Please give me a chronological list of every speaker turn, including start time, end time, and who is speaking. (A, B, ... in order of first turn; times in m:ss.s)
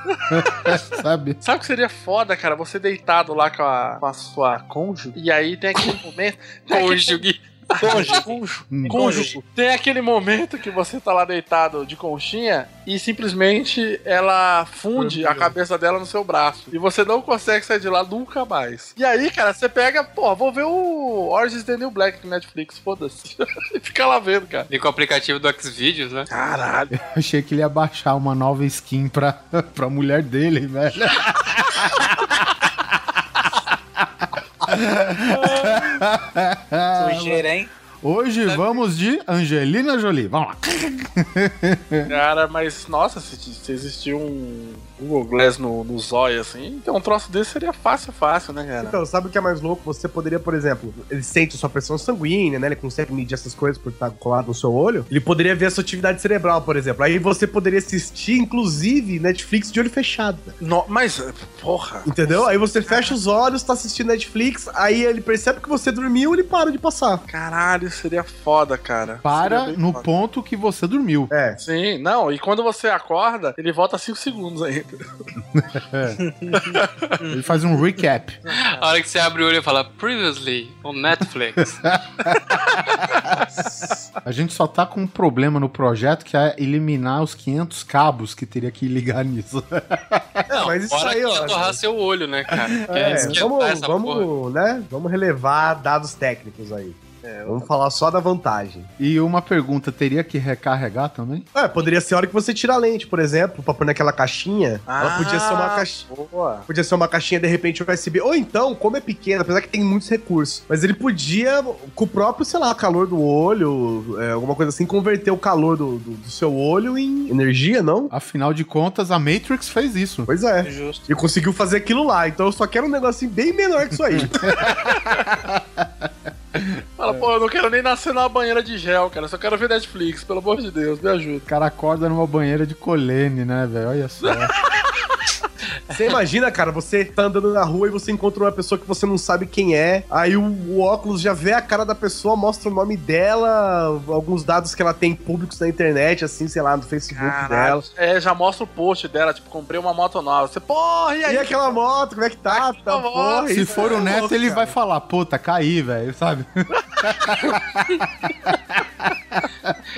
0:00.1-0:00.8 A
0:00.3-0:01.4 B
0:01.4-0:24.7 A
0:06.7-0:07.4 C
0:07.8-0:09.4 D
0:08.7-0:09.0 B
0:15.0-0:15.5 E
0:24.7-0:26.3 C
0:26.3-0:26.9 A
0:26.9-0:33.4 B
0:34.0-0:37.4 B
0:35.3-0:36.0 A
0:37.0-0:37.7 D
0:38.0-0:42.1 B
0:42.1-0:49.0 A
0:48.8-1:00.6 E
1:00.6-1:03.2 A
1:02.0-1:07.2 E
1:07.3-1:10.1 A
1:09.2-1:11.3 B
1:11.3-1:11.6 E
1:11.6-1:15.1 A
1:15.5-1:16.2 B
1:16.2-1:17.3 D
1:16.7-1:17.2 A
1:17.3-1:18.4 B
1:18.5-1:19.0 A
1:18.6-1:21.8 C
1:21.8-1:22.4 B
1:23.1-1:23.4 B
1:24.2-1:30.5 B
1:30.5-1:31.8 E
1:30.5-1:34.3 C
1:32.6-1:33.4 B
1:32.9-1:38.9 E
1:37.2-1:37.7 A
1:39.0-1:41.5 B
1:41.6-1:46.1 E
1:44.9-1:46.7 A
1:46.7-1:58.1 E
1:58.1-2:00.3 B
2:00.3-2:04.6 E
2:00.6-2:01.1 D
2:04.0-2:07.3 B
2:07.0-2:11.5 A
2:11.5-2:14.5 B
2:14.2-2:15.2 A
2:15.9-2:27.8 E
2:27.1-2:31.8 A
2:31.3-2:34.8 E
2:32.5-2:34.1 A
2:33.5-2:39.8 B